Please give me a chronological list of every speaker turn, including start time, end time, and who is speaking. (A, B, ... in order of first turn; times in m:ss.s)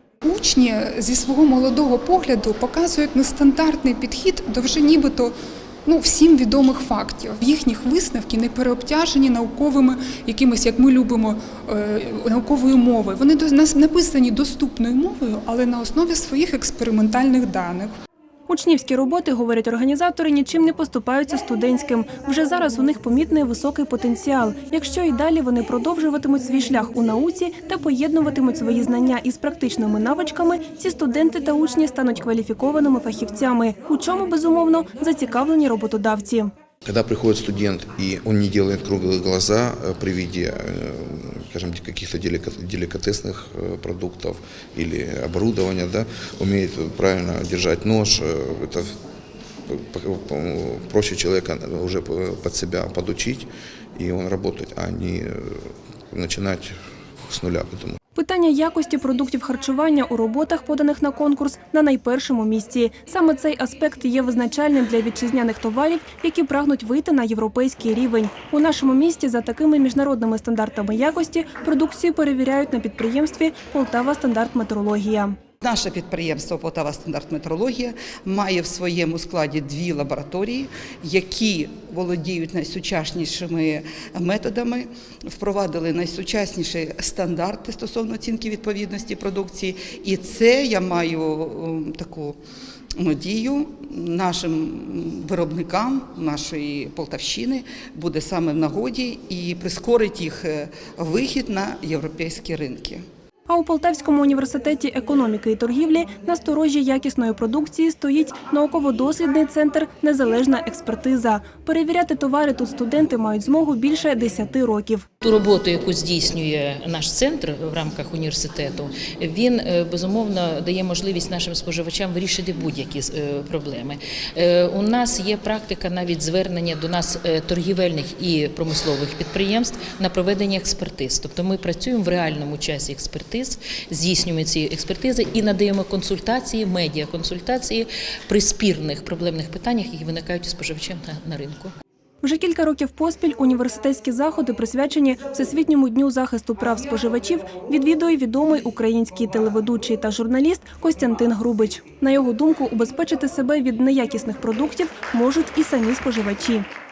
0:00.2-0:05.4 A
0:05.9-0:17.9 A
0:18.5-0:36.5 B
0:36.8-0:48.9 C
0:49.7-0:58.0 C
0:58.2-1:15.4 B
1:15.6-1:32.4 D
1:33.0-1:43.0 D
1:43.5-1:55.0 B
1:55.2-2:21.7 E
2:22.2-2:36.6 B